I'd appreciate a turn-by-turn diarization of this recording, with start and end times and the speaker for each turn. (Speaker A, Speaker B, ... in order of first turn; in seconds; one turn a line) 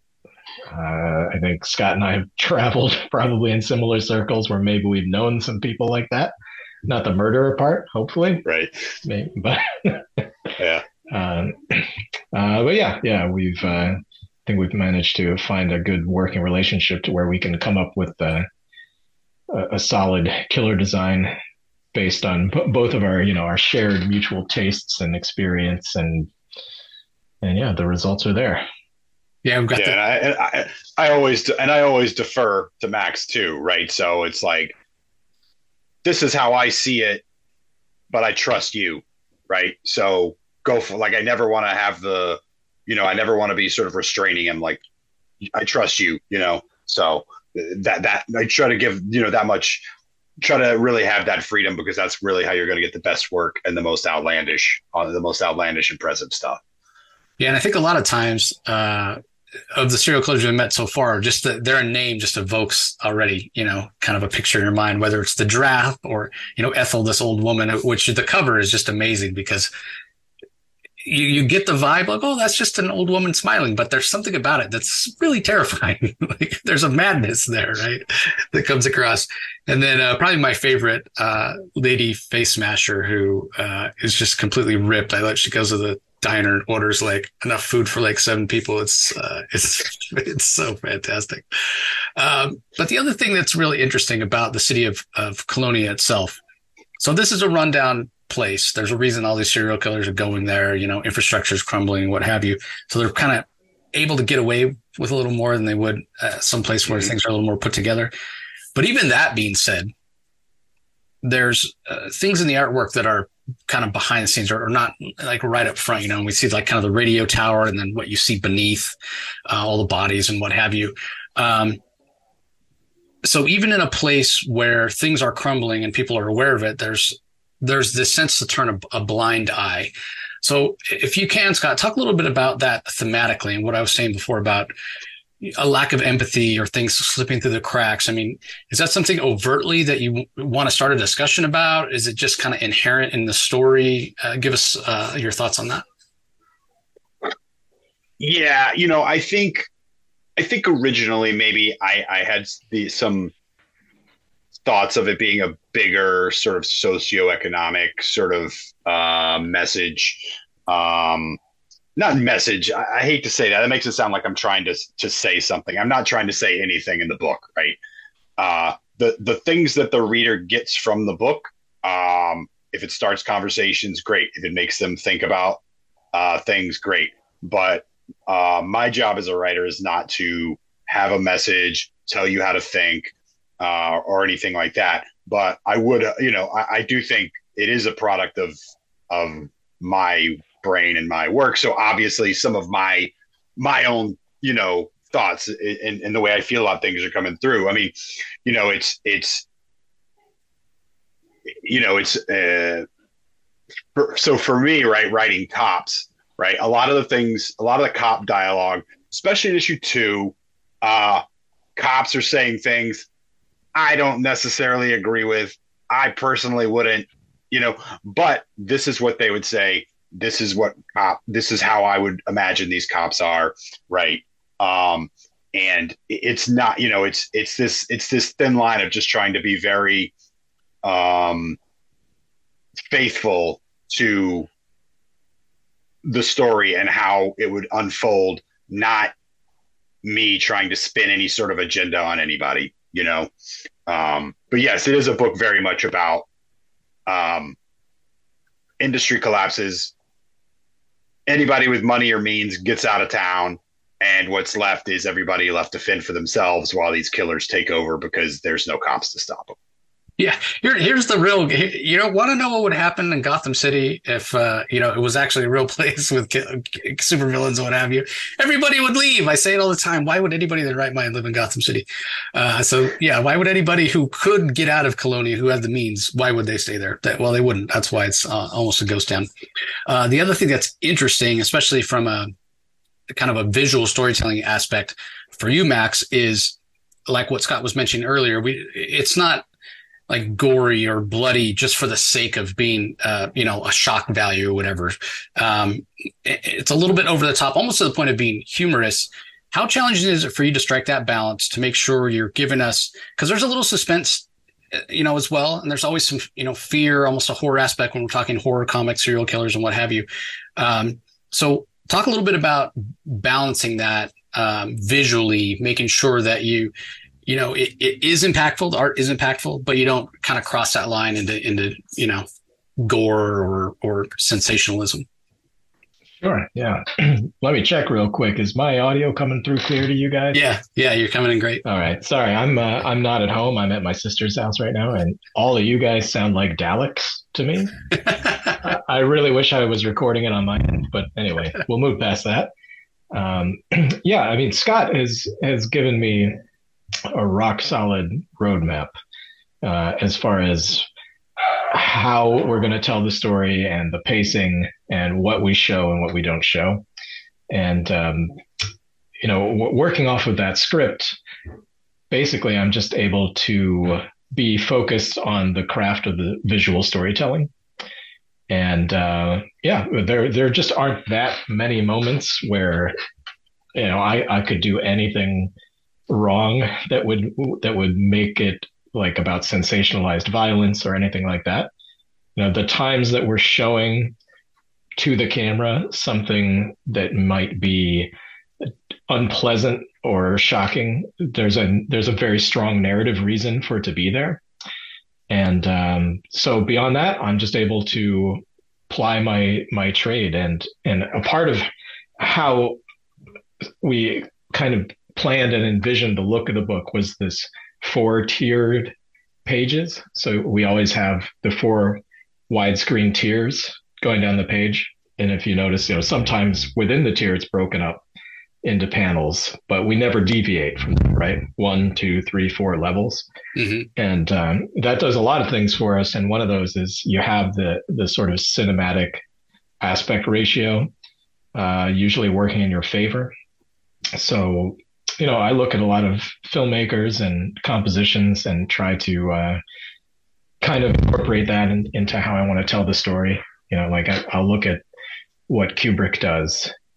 Speaker A: 0.7-6.3
Speaker A: 6.8-8.5
Speaker B: 8.4-8.7
Speaker A: 9.0-10.5
Speaker B: 10.6-10.8
Speaker A: 11.1-18.5
Speaker A: 19.5-21.3
Speaker A: 21.9-26.3
Speaker A: 27.4-28.6
Speaker C: 29.4-30.0
Speaker B: 29.7-34.7
Speaker B: 36.0-37.2
Speaker B: 38.1-44.8
Speaker B: 45.5-49.8
Speaker B: 50.4-56.6
Speaker C: 57.4-59.2
Speaker C: 59.7-69.7
Speaker C: 71.0-96.4
Speaker C: 97.0-108.1
Speaker B: 106.9-107.1
Speaker C: 108.7-109.9
Speaker C: 111.2-118.9
Speaker C: 119.5-121.8
Speaker C: 123.2-134.7
Speaker C: 135.4-145.8
Speaker B: 148.2-149.7
Speaker B: 150.4-153.3
Speaker B: 154.6-161.4
Speaker B: 161.9-167.8
Speaker B: 168.4-175.6
Speaker B: 176.1-188.5
Speaker B: 189.1-197.9
Speaker B: 198.4-199.4
Speaker B: 201.5-202.8
Speaker B: 203.9-211.2
Speaker B: 211.8-213.1
Speaker B: 213.7-230.1
Speaker B: 230.8-231.6
Speaker B: 232.9-234.5
Speaker B: 236.0-239.1
Speaker B: 240.0-243.3
Speaker B: 243.9-246.2
Speaker B: 247.1-247.6
Speaker B: 248.8-249.9
Speaker B: 251.3-259.6
Speaker C: 260.2-279.3
Speaker C: 279.9-282.3
Speaker C: 283.1-289.4
Speaker C: 290.1-310.1
Speaker C: 310.6-316.7
Speaker C: 317.2-322.2
Speaker C: 322.8-325.1
Speaker A: 326.2-330.4
Speaker C: 330.3-331.6
Speaker A: 331.6-337.8
Speaker A: 338.6-342.5
Speaker A: 343.1-346.4
Speaker A: 347.1-348.9
Speaker A: 349.6-350.9
Speaker A: 351.7-356.8
Speaker A: 357.5-358.4
Speaker A: 359.2-361.1
Speaker A: 362.1-367.5
Speaker A: 368.5-372.9
Speaker A: 373.7-375.5
Speaker A: 376.1-381.7
Speaker A: 382.4-384.1
Speaker A: 385.0-394.4
Speaker A: 395.3-401.7
Speaker A: 402.2-402.8
Speaker A: 403.8-408.9
Speaker A: 409.4-418.0
Speaker A: 418.6-423.3
Speaker C: 423.6-423.9
Speaker A: 423.9-429.2
Speaker A: 429.8-430.9
Speaker A: 431.5-433.3
Speaker A: 434.1-439.6
Speaker A: 440.6-444.8
Speaker A: 445.5-446.7